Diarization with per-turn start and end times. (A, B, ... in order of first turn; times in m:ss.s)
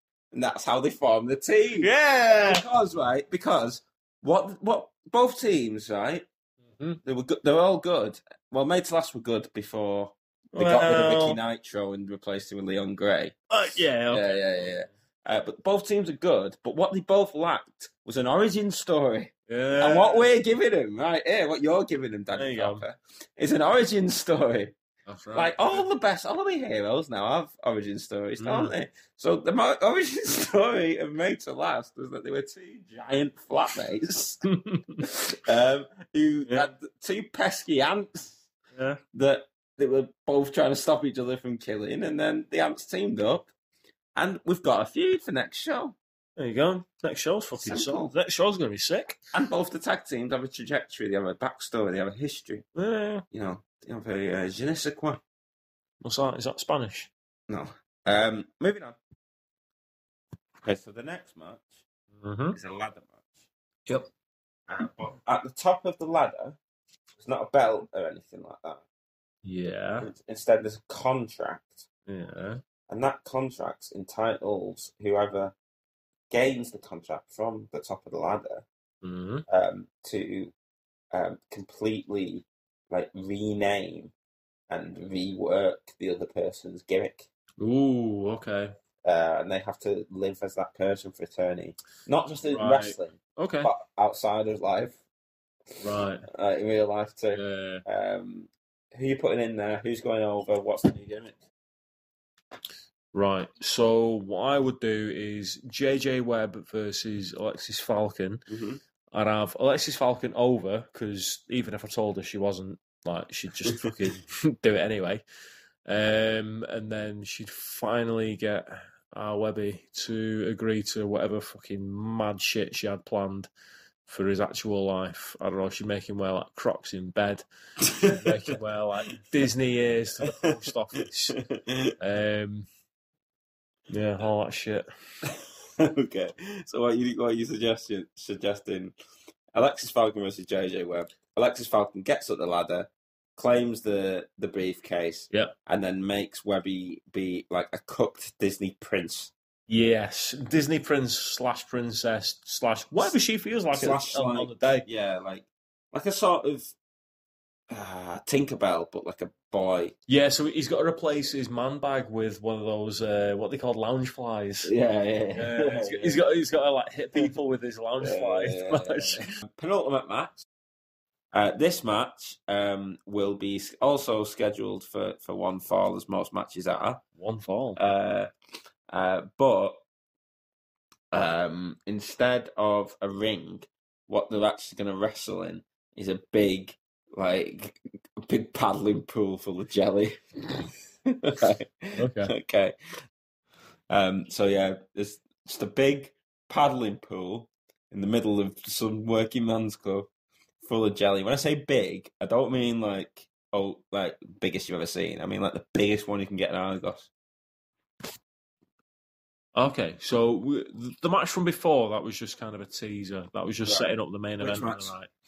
0:00.3-0:06.3 A
0:01.8-0:02.6 B
0:06.7-0:07.0 B
0:07.0-0:13.4 A
0:10.6-0:11.4 B
0:13.5-0:14.7 B
0:14.1-0:24.8 A
0:19.5-0:20.3 B
0:22.4-0:22.8 B
0:25.1-0:25.9 B
0:25.3-0:34.4 A
0:28.4-0:28.7 B
0:34.4-0:35.0 B
0:35.0-0:38.5 A
0:38.7-0:39.0 B
0:39.1-0:43.5 A
0:44.2-0:46.0 A
0:46.4-0:49.2 B
0:47.6-0:48.1 A
0:49.3-0:52.6 A
0:52.8-0:53.2 B
0:53.3-0:55.2 A
0:56.0-0:57.1 B
0:57.5-0:59.0 A
1:00.6-1:01.8 A
1:02.2-1:02.6 B
1:02.5-1:03.5 A
1:04.7-1:06.6 A
1:07.2-1:08.8 A
1:09.4-1:10.1 B
1:10.0-1:11.9 A
1:12.1-1:12.6 B
1:12.9-1:15.6 A
1:16.3-1:18.7 A
1:19.0-1:19.4 B
1:19.5-1:20.5 A
1:21.1-1:24.1 A
1:24.7-1:27.3 A
1:27.6-1:28.7 B
1:29.0-1:35.0 A
1:32.5-1:33.7 B
1:35.8-1:36.2 B
1:36.3-1:41.4 A
1:37.3-1:37.8 B
1:43.1-1:48.5 B
1:48.5-1:48.8 A
1:49.1-1:55.2 B
1:55.9-2:03.5 B
2:04.1-2:07.4 B
2:07.8-2:08.5 A
2:08.1-2:11.4 B
2:10.2-2:12.0 A
2:12.0-2:12.7 B
2:13.9-2:14.9 B
2:15.8-2:18.9 A
2:19.5-2:29.3 A
2:29.7-2:34.9 B
2:33.7-2:36.8 A
2:37.7-2:40.0 A
2:40.1-2:44.7 B
2:44.6-2:46.3 A
2:45.4-2:49.2 B
2:48.0-2:50.4 A
2:51.3-2:57.0 A
2:57.2-2:57.8 B
2:57.8-2:58.3 A
2:58.9-2:59.8 A
3:01.1-3:12.8 A
3:12.0-3:12.3 B
3:13.9-3:20.1 A
3:20.6-3:27.1 A
3:29.6-3:35.1 B
3:33.6-3:34.9 A